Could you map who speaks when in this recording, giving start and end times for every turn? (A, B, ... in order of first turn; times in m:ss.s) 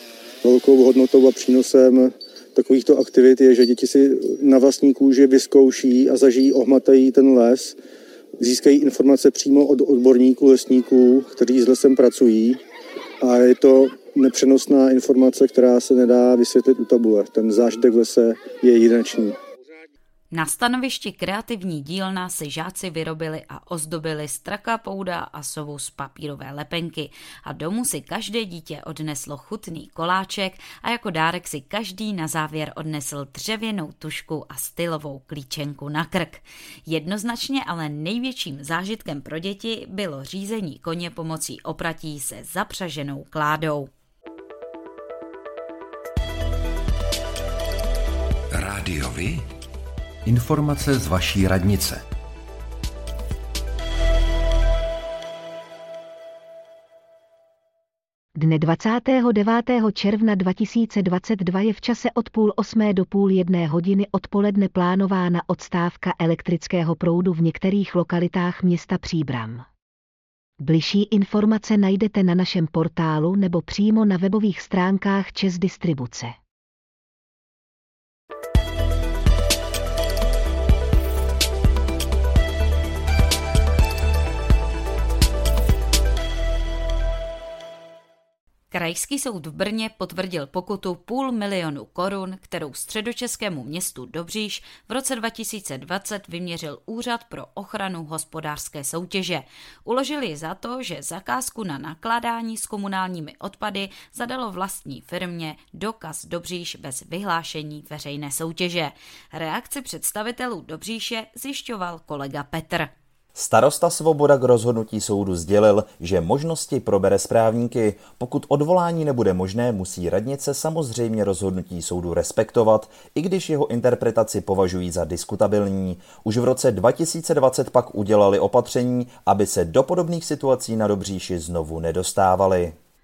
0:00.4-0:07.8 A
0:08.4-0:12.6 A
0:13.2-0:19.4 A
0:20.3-0:43.9 B
0:48.5-0:49.5 C
0:50.2-0:52.0 C
0:58.4-1:09.7 D
1:10.6-1:16.4 D
1:28.7-1:52.9 B
1:53.4-2:12.8 E